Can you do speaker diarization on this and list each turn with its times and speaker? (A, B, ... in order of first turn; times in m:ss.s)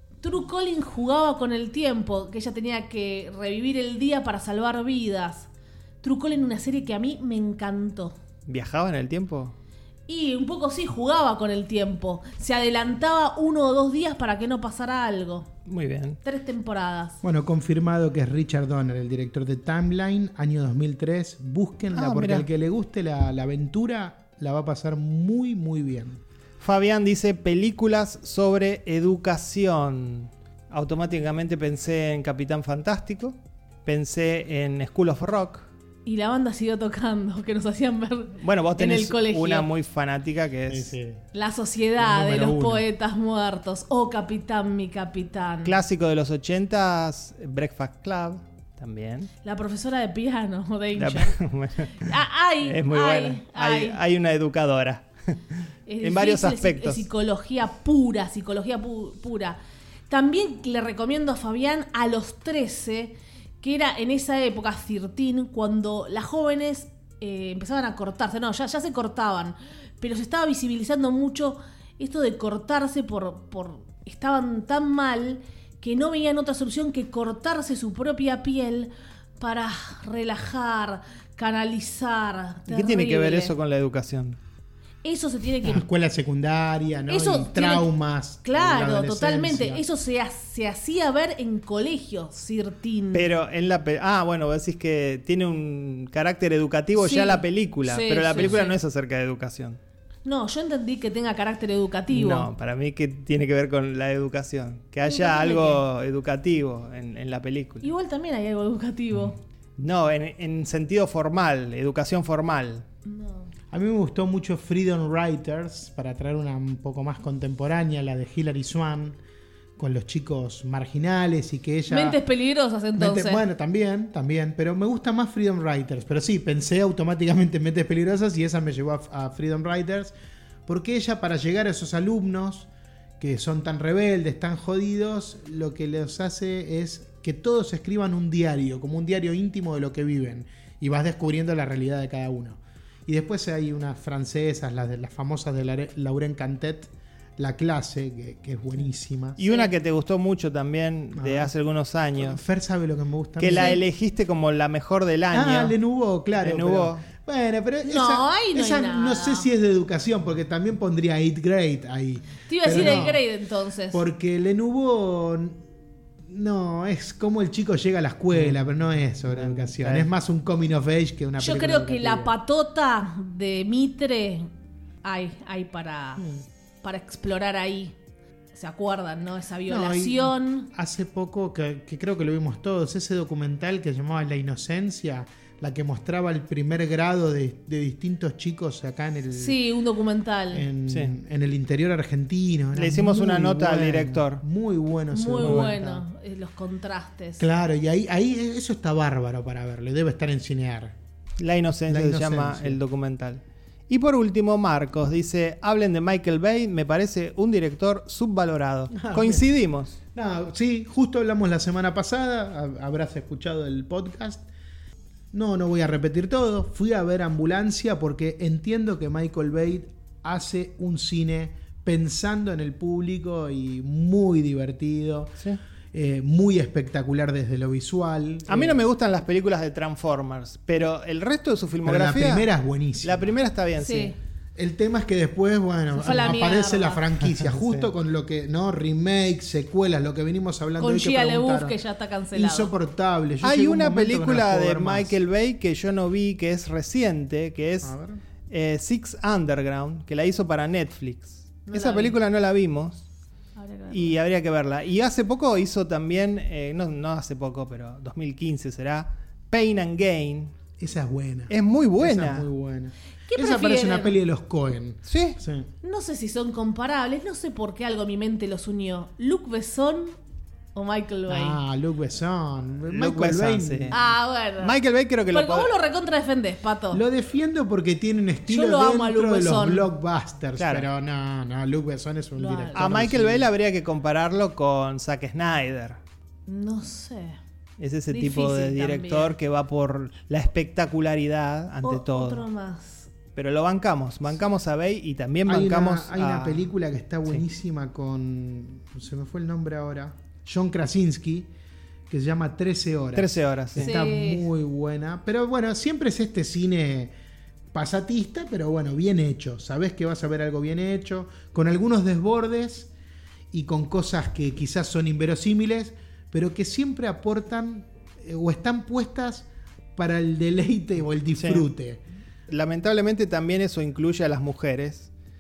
0:00.2-0:05.5 A
0:06.0-0:08.2 A
0:08.5-0:09.5 B
0:10.1-0:15.5 A
0:15.7-0:16.2 B
0:16.2-0:17.2 A
0:17.2-0:26.2 C
0:21.9-0:22.5 B
0:26.6-0:35.6 B
0:36.0-0:39.7 A
0:38.4-0:41.0 B
0:40.7-0:41.2 C
0:41.3-0:45.8 A
0:42.0-0:42.8 C
0:45.6-0:49.3 B
0:49.4-0:51.4 A
0:51.0-0:52.1 B
0:52.0-0:54.0 A
0:52.6-0:57.1 B
0:55.9-1:23.5 A
1:22.7-1:24.4 B
1:25.0-1:25.8 A
1:25.6-1:29.8 C
1:27.1-1:27.9 A
1:28.4-1:33.3 A
1:33.1-1:39.8 B
1:37.0-1:38.8 A
1:40.2-1:42.5 A
1:42.1-1:47.9 B
1:45.0-1:45.8 A
1:47.8-1:49.4 A
1:49.8-1:52.8 B
1:53.0-1:53.5 A
1:53.7-1:59.2 C
1:59.8-2:02.2 C
2:01.9-2:03.4 A
2:03.0-2:10.1 C
2:10.7-2:29.4 C
2:29.4-2:32.4 B
2:29.4-2:29.7 A
2:31.2-2:31.5 C
2:32.2-2:33.8 C
2:33.4-2:35.8 B
2:33.5-2:33.8 A
2:35.3-2:43.2 C
2:36.4-2:37.0 B
2:37.8-2:39.5 A
2:42.5-2:44.0 A
2:43.9-2:45.6 C
2:46.3-2:52.3 C
2:49.3-2:50.1 B
2:51.4-2:54.5 A
2:55.0-2:56.3 A
2:56.2-2:56.4 C
2:56.8-2:58.0 A
2:58.5-3:00.7 A
2:59.7-3:09.6 C
3:09.3-3:10.7 A
3:10.5-3:16.0 C
3:12.8-3:14.4 B
3:15.1-3:17.4 A
3:15.4-3:15.7 B
3:17.4-3:21.0 C
3:21.4-3:30.0 B
3:21.9-3:22.8 C
3:28.9-3:29.4 C
3:30.2-3:34.5 C
3:35.3-3:45.4 C
3:45.9-3:48.8 C
3:48.5-3:52.5 B
3:51.8-3:53.3 C
3:53.0-3:54.1 B
3:53.8-3:54.2 A
3:54.6-4:01.8 C
3:55.9-3:57.0 A
3:57.5-3:57.9 B
4:00.8-4:02.7 A
4:02.4-4:05.2 C
4:03.4-4:07.9 B
4:07.8-4:08.2 C
4:08.5-4:13.0 B
4:11.7-4:12.2 A
4:13.6-4:14.2 A
4:13.9-4:20.5 B
4:20.8-4:25.7 C
4:21.5-4:22.5 B
4:23.3-4:24.2 A
4:25.1-4:25.4 B
4:25.8-4:30.2 A
4:30.8-4:31.6 A
4:31.3-4:34.0 C
4:32.9-4:34.0 B
4:33.9-4:34.8 A
4:34.6-4:35.7 B
4:35.3-4:37.0 A
4:36.9-4:43.5 C
4:38.5-4:39.9 A
4:40.6-4:40.9 B
4:42.4-4:42.9 A
4:42.7-4:46.0 B
4:46.5-4:47.4 A
4:47.8-4:52.4 B
4:48.1-4:49.4 A
4:51.8-4:53.1 A
4:53.4-4:56.7 B
4:55.5-5:01.5 C
5:02.1-5:07.1 C
5:03.2-5:03.9 B
5:03.8-5:04.4 A
5:07.7-5:12.9 C
5:13.5-5:22.0 C
5:21.4-5:21.7 B
5:22.5-5:25.1 B